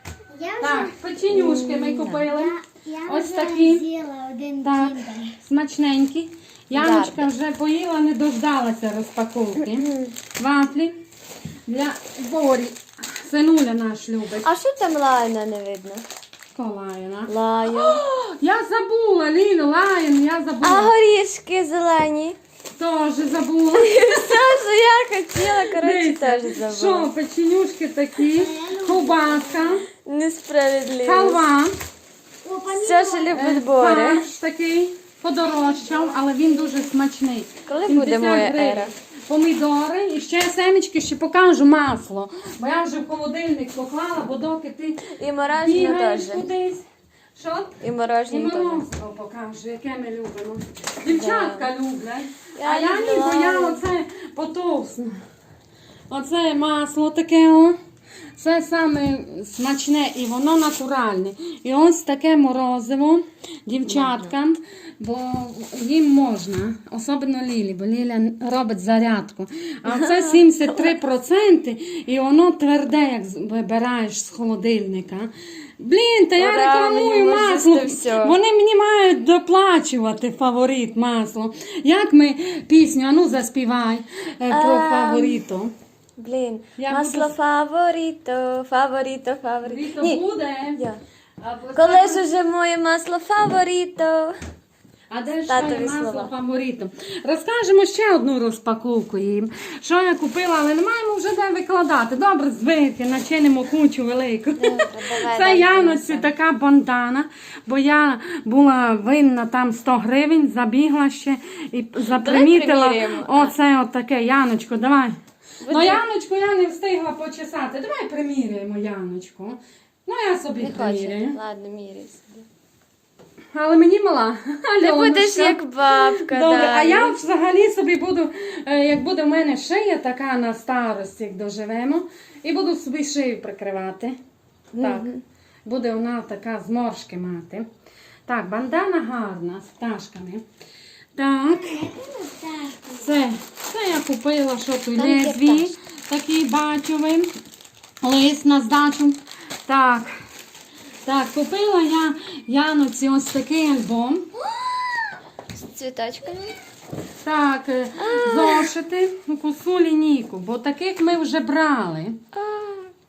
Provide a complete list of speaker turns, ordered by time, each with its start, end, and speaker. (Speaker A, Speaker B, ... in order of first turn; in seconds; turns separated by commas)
Speaker A: 0.3-1.0, Speaker B: 0.6-2.5, Speaker C: 1.3-2.3, Speaker A: 2.3-5.4, Speaker B: 3.1-3.8, Speaker B: 4.6-11.0, Speaker C: 6.7-7.3, Speaker C: 9.6-10.2, Speaker B: 11.7-14.5, Speaker C: 14.4-16.0, Speaker B: 16.5-20.9, Speaker C: 17.3-18.0, Speaker C: 20.6-22.4, Speaker B: 22.7-24.4, Speaker C: 23.7-27.1, Speaker B: 25.4-29.9, Speaker A: 28.3-29.8, Speaker C: 30.0-31.5, Speaker B: 31.0-31.7, Speaker A: 32.4-33.4, Speaker C: 32.7-34.3, Speaker B: 33.3-45.0, Speaker A: 35.4-36.9, Speaker C: 37.7-38.9, Speaker C: 45.0-46.5, Speaker B: 45.6-46.8, Speaker B: 47.3-55.2, Speaker C: 47.8-48.8, Speaker C: 51.0-51.7, Speaker C: 52.5-53.8, Speaker B: 56.1-57.8, Speaker B: 58.4-85.7, Speaker C: 63.9-64.3, Speaker C: 69.8-70.9, Speaker C: 76.4-78.4, Speaker C: 84.5-85.4, Speaker C: 86.2-90.2, Speaker B: 86.8-87.3, Speaker B: 89.6-90.8, Speaker C: 90.7-91.0, Speaker B: 91.4-92.3, Speaker C: 91.7-94.3, Speaker B: 95.1-121.4, Speaker C: 95.5-96.3, Speaker C: 104.6-106.3, Speaker C: 112.0-113.5, Speaker C: 115.6-116.0, Speaker C: 120.6-122.5, Speaker B: 123.5-134.2, Speaker C: 124.8-127.2, Speaker C: 134.7-135.2, Speaker B: 134.8-135.1, Speaker B: 135.6-137.7, Speaker B: 138.2-140.4, Speaker B: 141.1-141.9, Speaker A: 141.5-143.2, Speaker B: 142.9-147.3, Speaker C: 144.9-145.7, Speaker B: 148.0-150.1, Speaker B: 151.0-154.3, Speaker C: 154.5-155.0, Speaker C: 155.6-156.6, Speaker B: 157.2-162.2, Speaker C: 158.0-158.7, Speaker C: 162.3-162.9